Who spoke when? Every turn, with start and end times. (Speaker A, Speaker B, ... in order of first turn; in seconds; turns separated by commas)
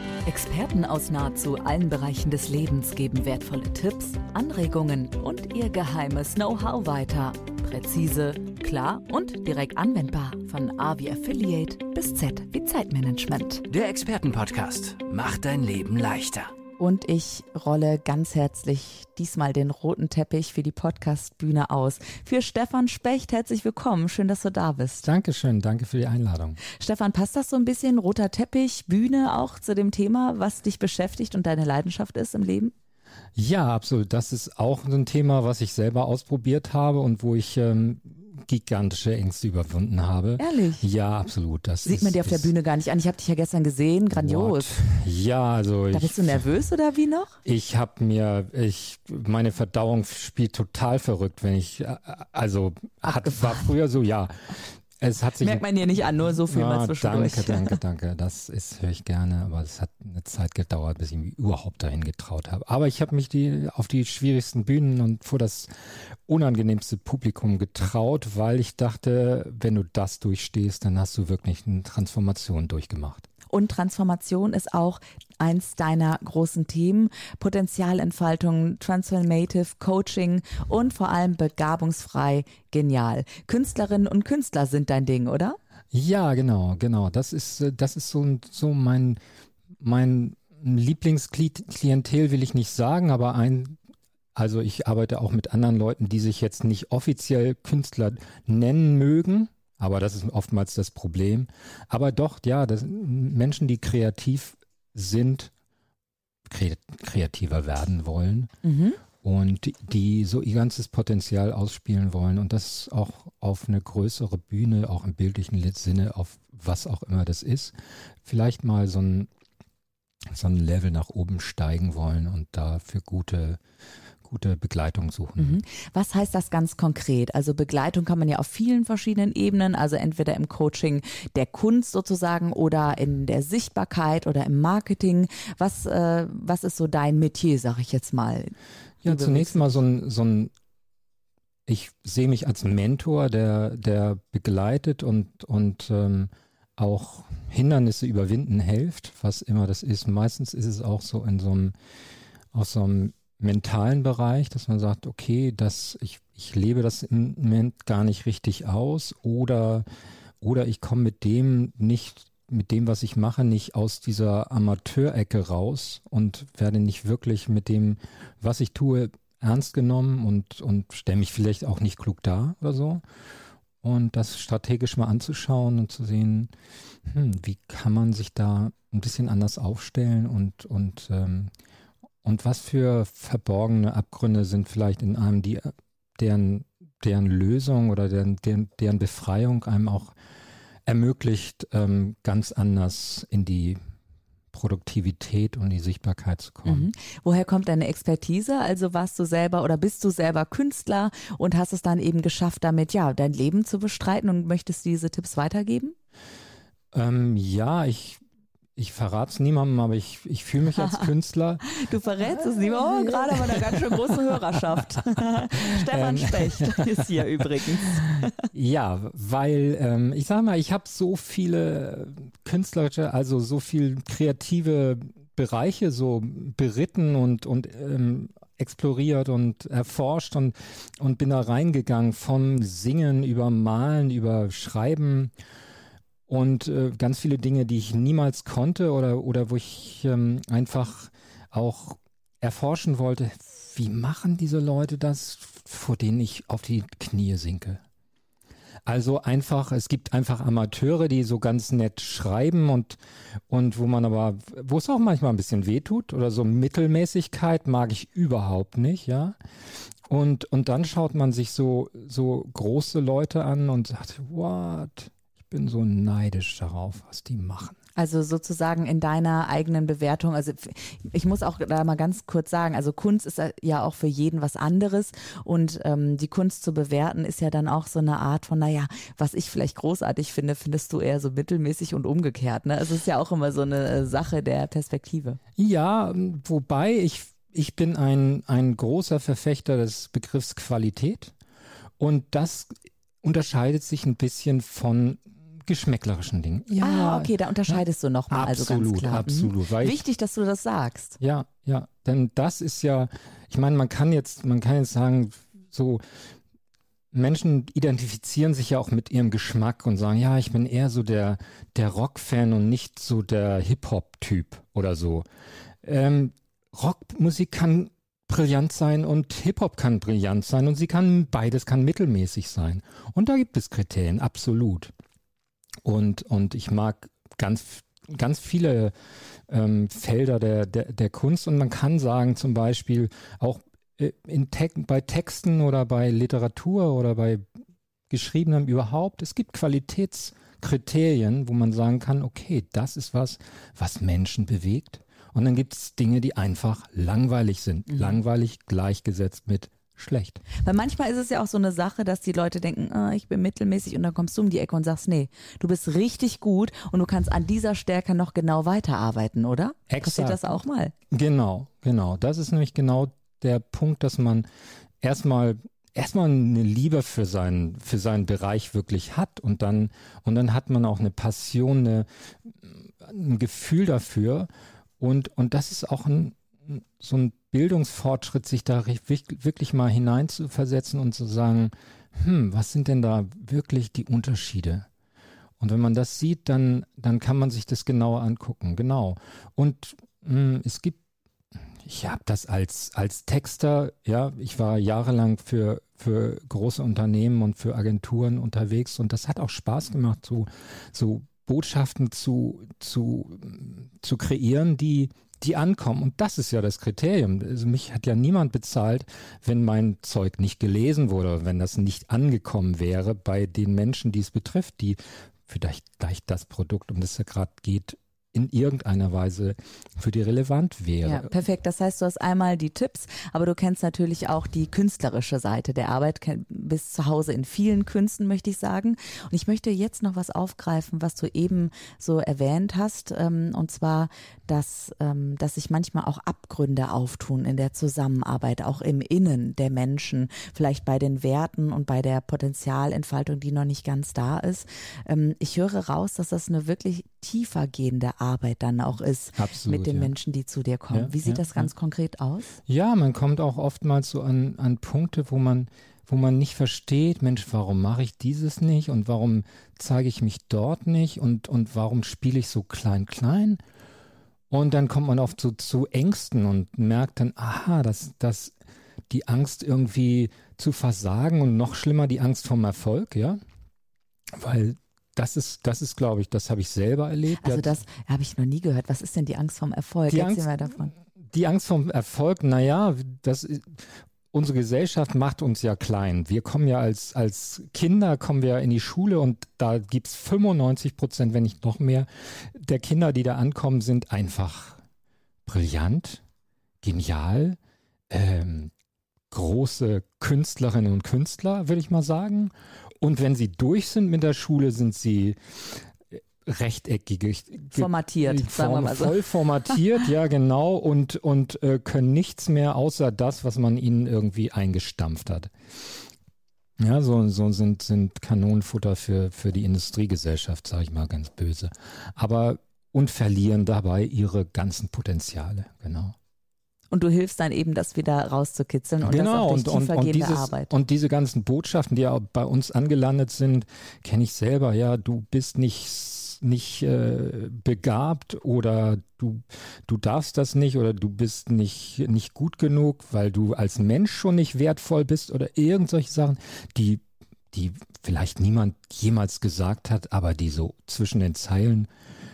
Speaker A: 0.2-13.7, Speaker B: 13.7-16.5, Speaker A: 16.8-25.1, Speaker C: 25.0-26.6, Speaker A: 26.7-32.7, Speaker C: 33.4-42.5, Speaker A: 40.4-40.9, Speaker A: 41.8-44.8, Speaker C: 44.1-46.4, Speaker A: 45.9-47.4, Speaker C: 47.5-55.6, Speaker A: 53.0-53.7, Speaker A: 55.4-57.8, Speaker C: 56.4-73.3, Speaker A: 73.5-85.6, Speaker C: 85.9-89.2, Speaker C: 89.8-93.8, Speaker C: 94.3-105.5, Speaker C: 106.5-108.5, Speaker A: 108.6-109.0, Speaker C: 109.2-119.3, Speaker C: 120.3-123.6, Speaker C: 124.2-125.6, Speaker A: 125.4-139.8, Speaker C: 139.0-140.5, Speaker C: 141.7-151.7, Speaker C: 152.5-159.8, Speaker C: 160.4-173.0, Speaker C: 173.8-176.5, Speaker C: 177.1-181.5, Speaker C: 182.2-190.1, Speaker C: 190.8-193.8, Speaker C: 194.5-196.9, Speaker A: 196.6-205.9, Speaker C: 206.9-208.2, Speaker C: 208.8-217.1, Speaker A: 210.8-211.1, Speaker A: 211.7-218.4, Speaker C: 218.1-235.3, Speaker C: 236.3-247.8, Speaker C: 248.8-253.0, Speaker C: 253.5-259.4, Speaker C: 260.1-267.8, Speaker A: 268.0-285.4, Speaker C: 285.6-291.3, Speaker C: 292.0-300.0, Speaker A: 296.8-301.2, Speaker C: 301.2-306.0, Speaker C: 307.1-315.2, Speaker C: 315.8-324.9, Speaker C: 325.8-328.9, Speaker C: 329.5-337.4, Speaker C: 338.1-350.4, Speaker A: 350.6-360.9, Speaker C: 359.9-360.5, Speaker C: 361.1-364.4, Speaker C: 365.0-384.9, Speaker C: 385.6-391.0, Speaker C: 391.8-421.3, Speaker A: 421.0-452.5, Speaker C: 449.4-450.1, Speaker C: 450.9-451.7, Speaker C: 452.7-463.6, Speaker C: 464.5-468.6, Speaker C: 469.1-473.4, Speaker C: 474.3-477.8, Speaker A: 477.4-480.9, Speaker C: 480.1-480.8, Speaker C: 481.3-494.8, Speaker C: 495.4-496.2, Speaker C: 496.8-497.6, Speaker C: 498.1-498.7, Speaker C: 499.3-515.5, Speaker A: 507.8-509.8, Speaker C: 516.8-526.1, Speaker A: 526.9-530.7, Speaker C: 529.0-551.9